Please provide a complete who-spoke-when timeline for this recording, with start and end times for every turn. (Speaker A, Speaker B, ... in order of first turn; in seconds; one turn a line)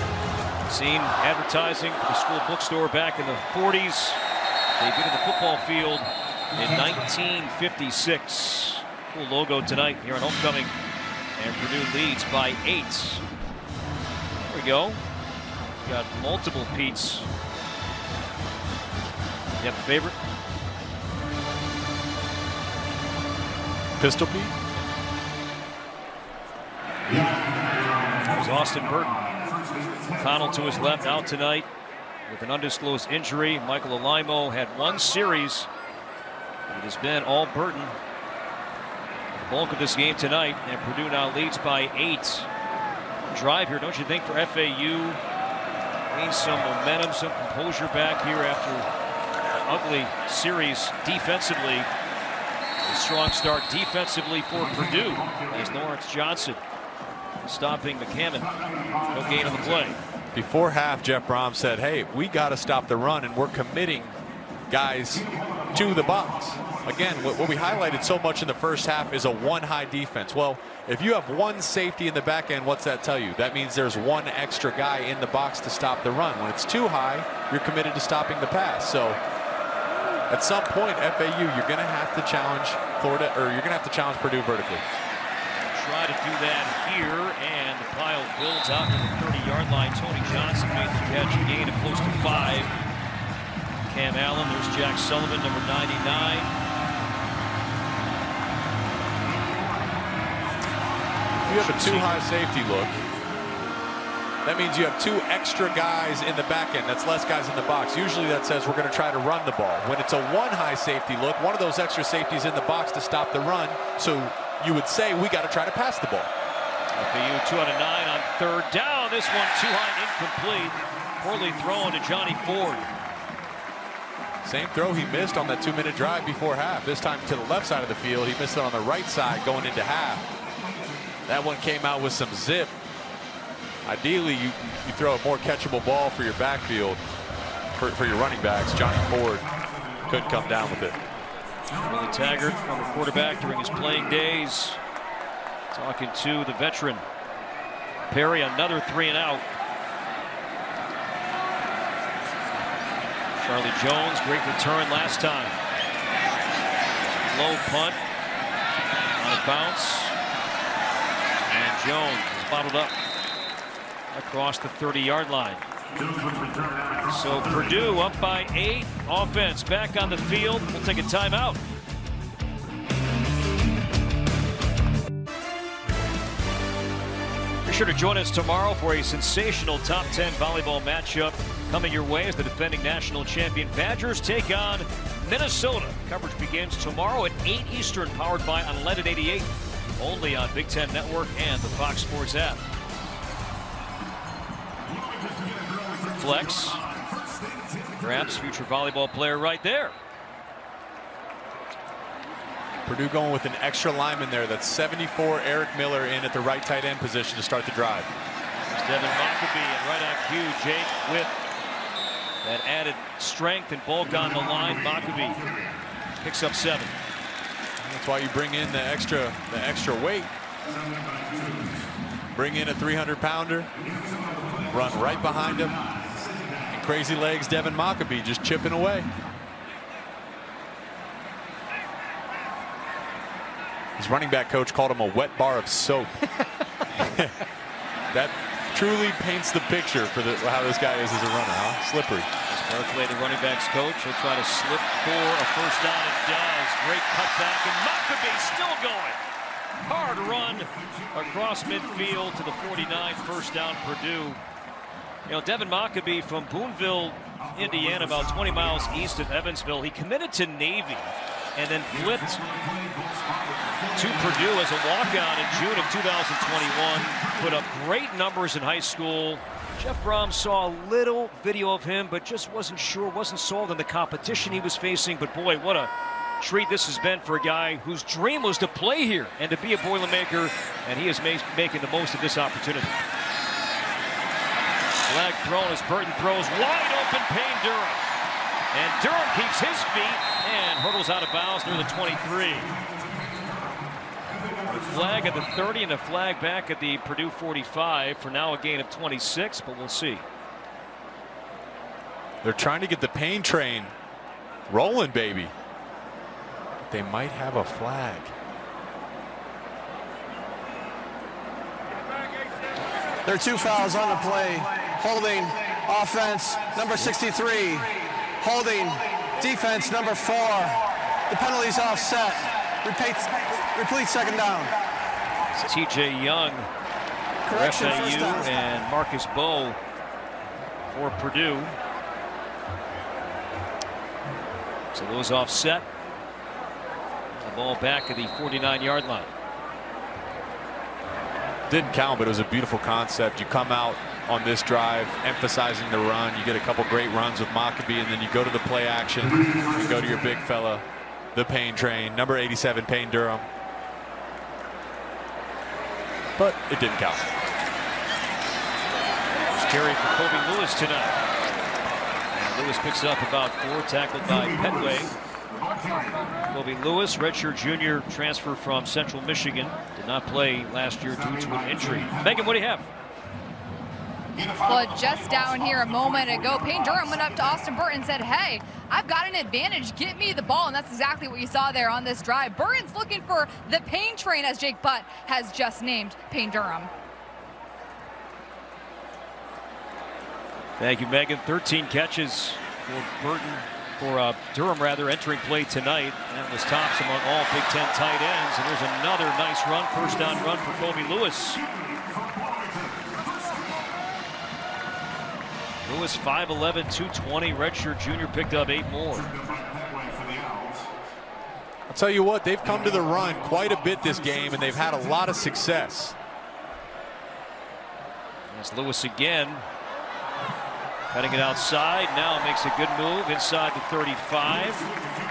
Speaker A: 0.7-4.2
Speaker A: 4.8-10.7
Speaker A: 11.4-13.2
Speaker A: 14.4-15.0
Speaker A: 15.8-17.3
Speaker A: 19.6-20.1
Speaker B: 24.0-24.6
Speaker A: 27.1-27.3
Speaker A: 28.2-29.3
Speaker A: 30.1-31.7
Speaker A: 32.3-35.7
Speaker A: 36.7-38.0
Speaker A: 39.4-42.5
Speaker A: 43.3-45.2
Speaker A: 46.1-48.9
Speaker A: 49.6-51.9
Speaker A: 52.9-56.6
Speaker A: 57.4-58.5
Speaker A: 59.1-60.0
Speaker B: 60.3-64.2
Speaker B: 64.7-79.2
Speaker B: 80.3-84.8
Speaker A: 85.6-92.7
Speaker A: 93.9-96.5
Speaker B: 101.4-103.0
Speaker A: 101.4-102.2
Speaker B: 104.4-116.3
Speaker A: 116.9-122.9
Speaker B: 124.4-130.3
Speaker B: 131.3-132.8
Speaker B: 133.8-137.0
Speaker B: 137.8-141.0
Speaker A: 141.8-144.8
Speaker A: 145.7-147.0
Speaker A: 148.1-149.5
Speaker A: 153.4-155.6
Speaker A: 157.0-158.0
Speaker A: 159.2-160.2
Speaker A: 161.5-163.0
Speaker A: 164.1-165.6
Speaker A: 167.1-171.6
Speaker A: 177.7-192.6
Speaker A: 196.0-196.8
Speaker A: 198.0-200.0
Speaker B: 202.8-208.1
Speaker A: 208.7-211.4
Speaker A: 212.4-215.4
Speaker A: 216.2-217.0
Speaker B: 217.8-220.3
Speaker B: 222.3-223.7
Speaker B: 224.6-225.8
Speaker B: 226.6-229.1
Speaker B: 234.0-236.3
Speaker B: 236.9-237.4
Speaker B: 238.1-242.3
Speaker A: 242.5-249.2
Speaker A: 249.8-254.4
Speaker A: 255.3-262.6
Speaker A: 263.9-283.0
Speaker A: 285.1-288.1
Speaker A: 288.7-292.7
Speaker A: 294.6-300.2
Speaker B: 302.4-303.9
Speaker B: 304.7-305.5
Speaker B: 306.9-308.3
Speaker C: 313.2-320.8
Speaker C: 321.3-324.8
Speaker A: 325.6-326.7
Speaker C: 327.4-328.5
Speaker A: 327.5-329.8
Speaker A: 330.9-331.8
Speaker A: 334.9-335.9
Speaker A: 337.3-339.3
Speaker B: 341.7-353.5
Speaker B: 356.4-357.3
Speaker A: 359.5-361.2
Speaker A: 362.3-365.2
Speaker A: 366.5-372.9
Speaker D: 374.6-386.9
Speaker A: 390.8-401.6
Speaker A: 405.9-409.3
Speaker B: 411.9-416.2
Speaker A: 418.5-419.6
Speaker A: 421.1-424.9